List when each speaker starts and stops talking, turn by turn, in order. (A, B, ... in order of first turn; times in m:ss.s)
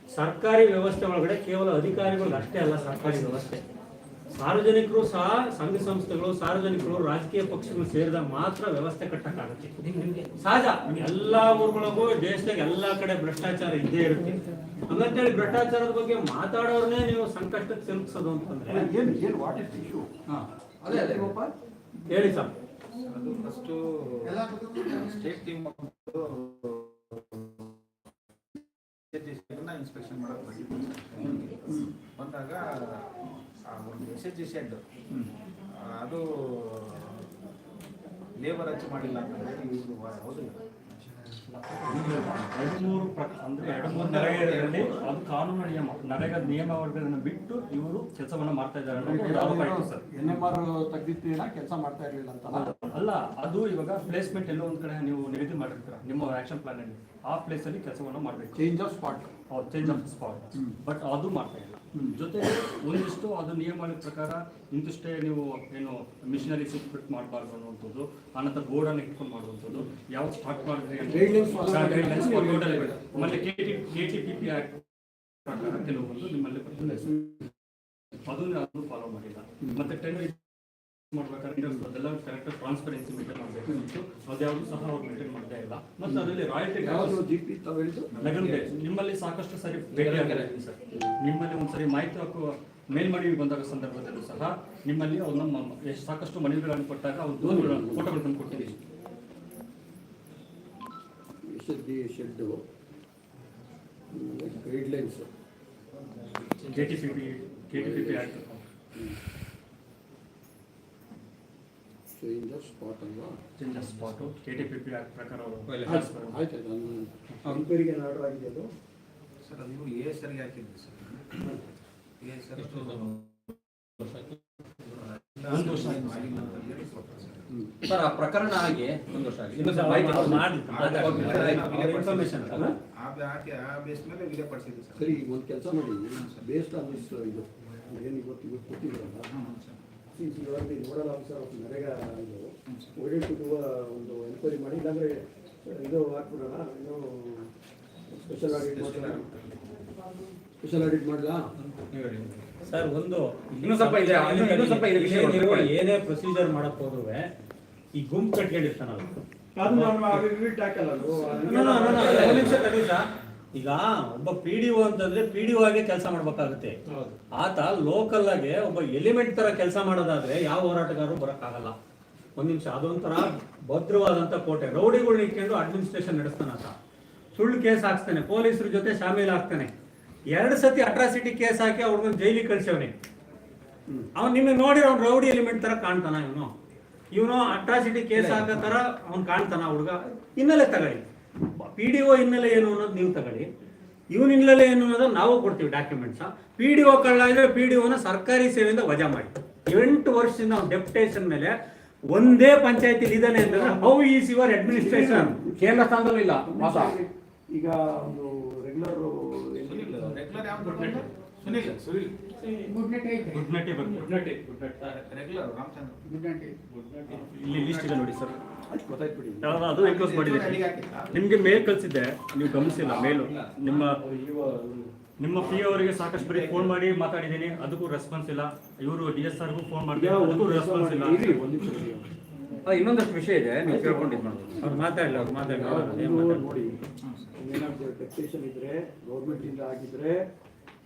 0:00.1-0:03.6 A
0:04.3-0:18.9 A
0:18.7-0:20.1 B
0:20.3-0:21.3 C
0:20.8-0:21.5 B
0:22.1-0:22.5 A
0:23.0-0:27.7 D
0:29.1-0:33.1 D
0:31.2-0:31.9 B
0:33.7-0:34.8 D
0:35.7-0:37.3 D
0:38.4-0:40.6 D
0:41.5-0:50.4 E
0:43.6-0:45.1 D
0:48.9-0:52.7 B
0:52.6-0:58.6 E
0:58.5-0:59.3 B
0:59.5-1:14.8 E
1:11.0-1:13.5 B
1:15.4-1:17.4 E
1:16.8-1:17.3 B
1:18.2-1:27.2 E
1:19.6-1:19.9 B
1:26.0-1:28.8 B
1:28.2-1:38.8 E
1:29.9-1:30.5 C
1:37.4-1:38.7 B
1:41.4-1:42.6 B
1:44.1-1:45.3 B
1:46.6-1:48.6 E
1:47.7-1:48.4 B
1:52.1-1:53.4 B
1:53.6-1:56.4 E
1:55.7-1:56.0 C
1:55.8-1:58.7 B
1:59.4-2:01.4 D
2:02.2-2:03.3 D
2:05.2-2:07.5 D
2:05.5-2:06.4 E
2:07.8-2:11.7 C
2:09.5-2:12.7 A
2:10.6-2:15.2 D
2:11.2-2:12.7 B
2:15.0-2:19.3 B
2:16.1-2:16.4 D
2:19.3-2:19.8 D
2:20.1-2:27.5 B
2:28.1-2:29.3 B
2:28.5-2:29.6 D
2:30.6-2:31.4 B
2:31.6-2:32.4 D
2:32.6-2:37.2 A
2:33.6-2:35.7 C
2:38.0-2:39.1 A
2:39.5-2:42.6 B
2:39.8-2:40.2 A
2:41.4-2:43.0 A
2:41.9-2:42.5 C
2:43.5-2:46.8 A
2:47.4-2:51.7 A
2:52.4-2:56.7 A
2:57.4-2:59.7 A
3:00.3-3:02.9 A
3:04.2-3:06.5 A
3:07.1-3:11.0 A
3:11.6-3:13.5 A
3:14.1-3:21.5 A
3:22.1-3:25.4 A
3:23.4-3:23.9 B
3:24.6-3:25.8 B
3:25.6-3:26.9 C
3:26.4-3:31.8 B
3:29.6-3:32.1 D
3:33.3-3:35.0 E
3:35.0-3:36.0 D
3:36.8-3:38.4 E
3:37.1-3:38.1 D
3:38.7-3:39.6 B
3:39.4-3:44.0 E
3:39.7-3:41.3 D
3:43.0-3:43.3 C
3:43.0-3:43.3 D
3:43.8-3:44.9 B
3:45.2-3:51.4 E
3:45.7-3:46.8 D
3:49.9-3:52.1 B
3:52.6-3:54.5 C
3:53.6-3:54.6 B
3:54.6-3:56.5 A
3:55.4-3:56.8 B
3:57.4-4:00.3 B